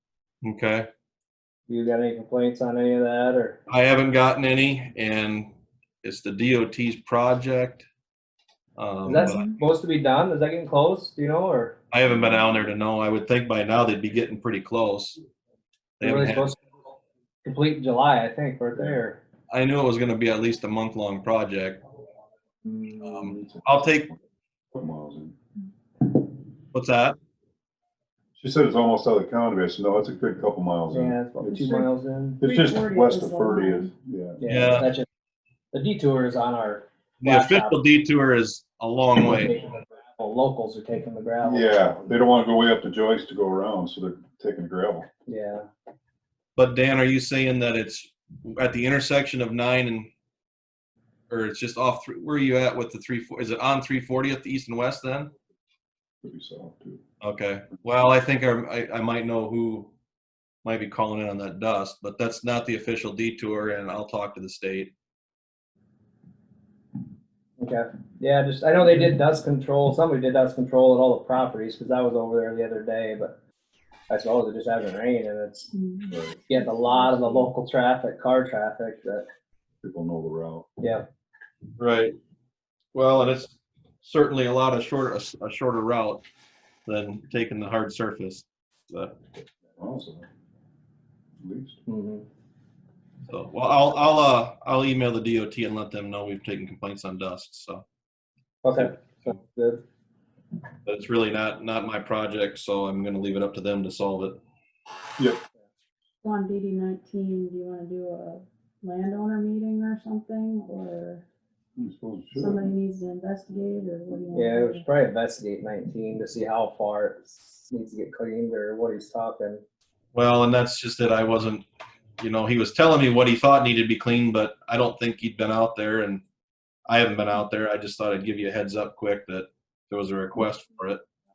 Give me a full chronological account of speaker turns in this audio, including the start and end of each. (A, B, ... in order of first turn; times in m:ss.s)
0:00.4-0:00.9 A
0:01.7-0:03.6 B
0:03.7-0:05.5 A
0:06.0-0:07.8 A
0:08.8-0:09.5 A
0:09.0-0:11.8 B
0:11.9-0:15.2 A
0:16.0-0:16.5 A
0:16.0-0:16.6 B
0:17.4-0:19.2 B
0:19.5-0:21.8 A
0:22.6-0:24.2 C
0:23.0-0:24.1 A
0:24.7-0:25.3 C
0:26.7-0:27.2 A
0:28.4-0:31.8 C
0:30.9-0:32.4 B
0:32.4-0:34.8 C
0:32.4-0:33.9 D
0:34.4-0:35.1 B
0:34.5-0:34.9 A
0:35.7-0:37.8 B
0:37.2-0:39.6 A
0:39.2-0:42.0 B
0:41.4-0:45.1 C
0:45.3-0:45.7 B
0:46.6-0:50.1 A
0:51.3-0:55.3 A
0:56.2-0:57.0 C
0:57.2-0:59.9 A
1:00.6-1:04.9 A
1:07.6-1:13.4 B
1:14.1-1:15.7 B
1:15.7-1:16.2 D
1:16.1-1:17.5 C
1:16.5-1:19.2 B
1:19.8-1:20.6 C
1:20.8-1:21.1 B
1:21.8-1:22.1 A
1:22.9-1:26.2 A
1:26.8-1:29.2 A
1:29.8-1:30.3 C
1:31.4-1:31.8 C
1:31.9-1:32.3 B
1:33.3-1:37.8 A
1:38.6-1:39.8 B
1:40.8-1:44.4 A
1:46.2-1:51.2 D
1:51.8-1:52.7 C
1:52.3-1:54.8 D
1:54.3-1:59.6 B
2:00.1-2:01.6 A
2:02.2-2:06.2 A
2:06.9-2:11.0 A